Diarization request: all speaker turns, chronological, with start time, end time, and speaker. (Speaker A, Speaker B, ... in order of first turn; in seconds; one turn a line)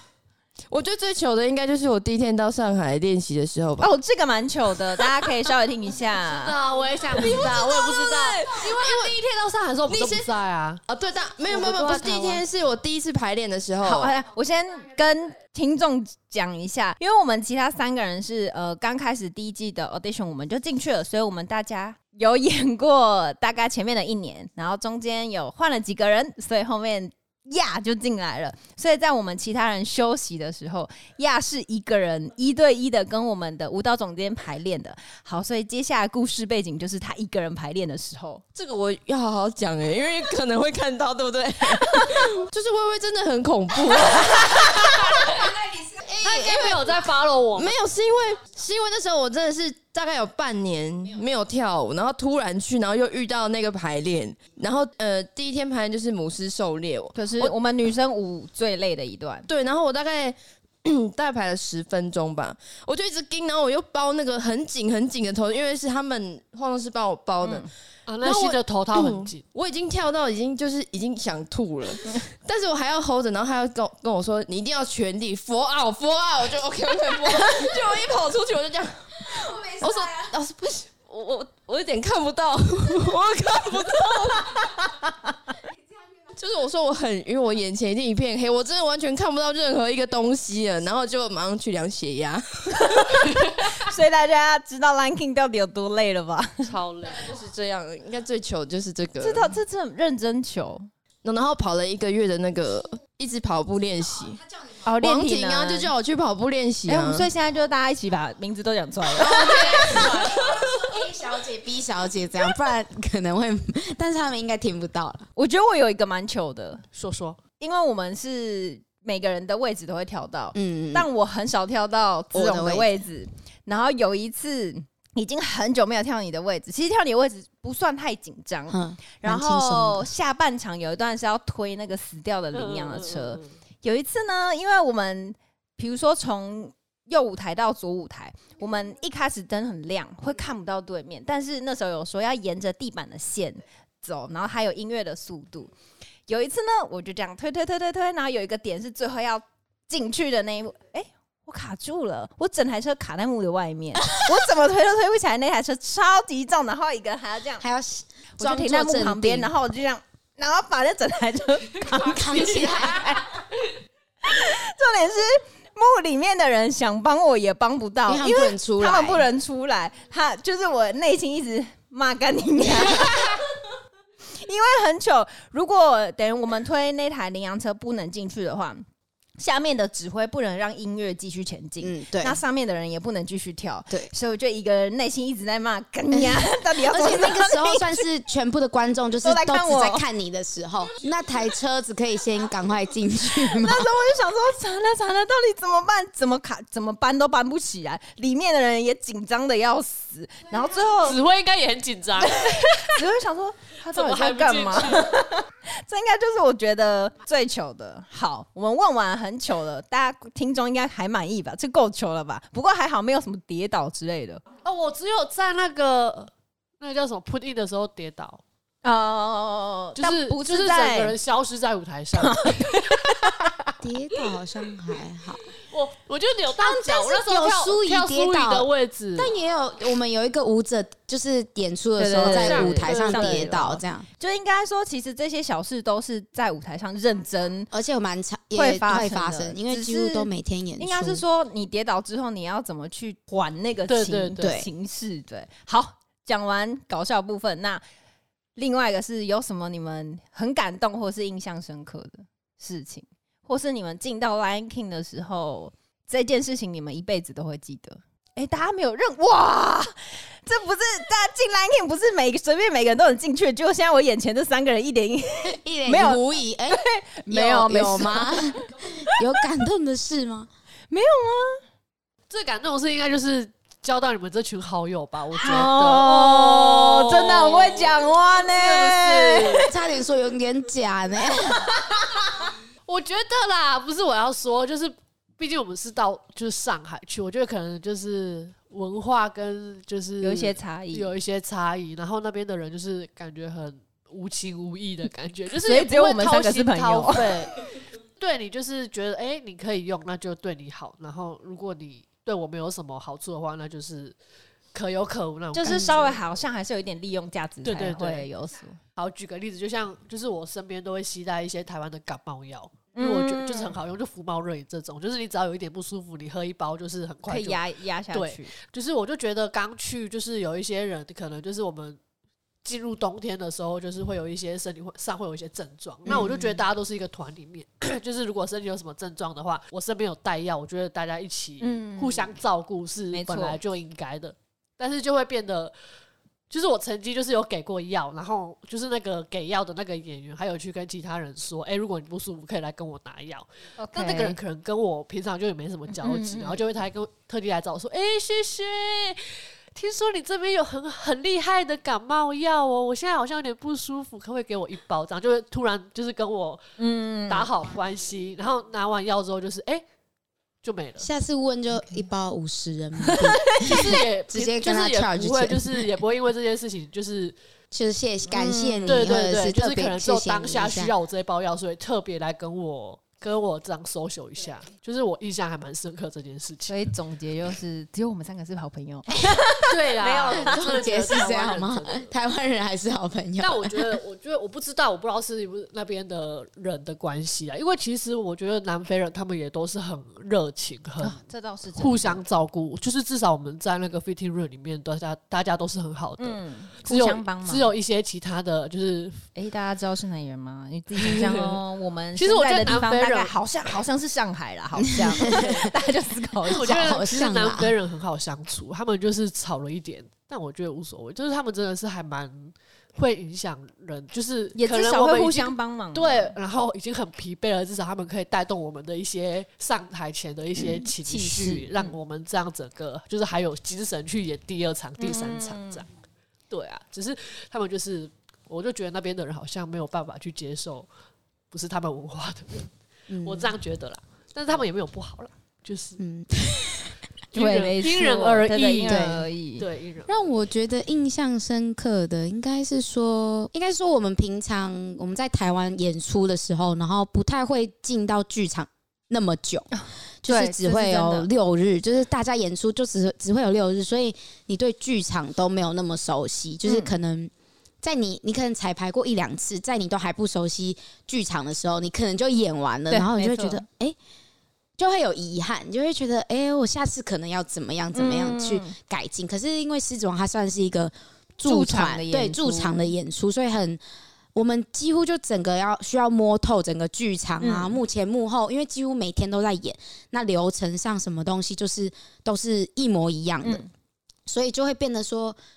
Speaker A: 0.7-4.0
Speaker B: 3.8-6.6
Speaker C: 6.2-10.8
Speaker A: 7.2-9.2
Speaker A: 9.9-10.3
Speaker A: 10.9-14.1
Speaker B: 11.5-12.4
Speaker B: 13.8-38.4
Speaker A: 38.5-47.0
Speaker B: 41.9-42.2
Speaker C: 46.1-47.8
Speaker A: 47.6-57.5
Speaker B: 57.1-59.5
Speaker A: 59.5-67.7
Speaker B: 67.4-67.7
Speaker C: 68.1-69.4
Speaker A: 68.2-85.0
Speaker A: 86.3-93.8
Speaker B: 92.8-96.7
Speaker C: 96.6-97.3
Speaker A: 97.1-99.6
Speaker B: 99.2-100.9
Speaker A: 101.2-104.4
Speaker B: 104.8-105.9
Speaker A: 105.0-107.3
Speaker B: 106.9-110.4
Speaker D: 109.2-115.3
Speaker A: 109.5-110.6
Speaker B: 115.4-116.8
Speaker C: 116.9-117.4
Speaker B: 117.6-145.7
Speaker D: 120.5-121.1
Speaker D: 122.3-122.9
Speaker D: 128.7-130.1
Speaker C: 132.5-133.5
Speaker B: 146.3-157.6
Speaker D: 157.6-159.5
Speaker B: 158.4-163.4
Speaker D: 161.9-163.2
Speaker B: 164.2-173.4
Speaker D: 168.1-169.3
Speaker B: 174.3-178.8
Speaker B: 179.4-188.0
Speaker D: 181.8-182.4
Speaker D: 186.1-193.9
Speaker B: 189.2-190.1
Speaker B: 193.4-201.2
Speaker C: 201.0-202.7
Speaker B: 202.2-214.4
Speaker C: 203.9-205.2
Speaker C: 214.6-218.4
Speaker B: 218.8-221.1
Speaker C: 220.0-223.5
Speaker B: 222.2-223.5
Speaker D: 223.8-225.4
Speaker C: 225.7-229.3
Speaker D: 226.6-234.1
Speaker B: 232.0-237.7
Speaker C: 232.2-233.6
Speaker D: 237.7-241.2
Speaker B: 238.6-247.8
Speaker C: 243.9-244.5
Speaker D: 244.4-244.7
Speaker B: 248.6-269.1
Speaker D: 265.4-270.5
Speaker B: 270.9-271.6
Speaker C: 272.3-279.7
Speaker B: 275.3-279.7
Speaker D: 279.7-281.8
Speaker C: 282.9-304.2
Speaker B: 290.2-291.1
Speaker B: 295.6-297.3
Speaker C: 304.7-306.2
Speaker B: 305.5-308.8
Speaker C: 307.6-308.3
Speaker C: 309.0-322.0
Speaker B: 312.9-313.8
Speaker B: 317.3-318.5
Speaker C: 322.6-335.7
Speaker B: 331.6-332.3
Speaker B: 333.1-333.6
Speaker C: 336.5-356.6
Speaker B: 343.8-344.4
Speaker B: 345.9-346.6
Speaker B: 356.8-357.5
Speaker C: 357.3-359.8
Speaker C: 360.6-361.1
Speaker D: 361.0-365.9
Speaker B: 363.0-363.9
Speaker C: 363.6-367.4
Speaker D: 367.7-370.9
Speaker B: 368.3-369.1
Speaker C: 368.9-376.8
Speaker B: 376.7-381.1
Speaker C: 379.6-382.1
Speaker D: 380.3-383.9
Speaker C: 383.4-391.2
Speaker B: 391.0-392.2
Speaker C: 391.8-399.2
Speaker B: 396.2-397.7
Speaker B: 399.4-407.0
Speaker C: 401.0-401.6
Speaker C: 402.2-403.4
Speaker D: 405.1-405.5
Speaker C: 405.3-405.7
Speaker C: 406.5-425.9
Speaker D: 406.5-407.7
Speaker B: 414.6-416.3
Speaker B: 421.0-421.9
Speaker B: 425.0-425.8
Speaker C: 426.5-430.9
Speaker C: 431.5-432.7
Speaker D: 433.1-433.6
Speaker C: 433.2-436.0
Speaker D: 436.0-436.9
Speaker B: 437.3-439.7
Speaker C: 437.3-440.2
Speaker D: 438.9-439.3
Speaker D: 440.1-449.7
Speaker B: 449.8-451.3
Speaker D: 450.2-457.3
Speaker B: 456.7-456.9
Speaker D: 457.8-464.0
Speaker B: 462.9-463.6
Speaker D: 464.8-473.8
Speaker B: 467.9-468.7
Speaker B: 471.4-472.8
Speaker D: 474.4-483.6
Speaker B: 477.4-477.8
Speaker B: 483.4-483.7
Speaker D: 484.3-485.4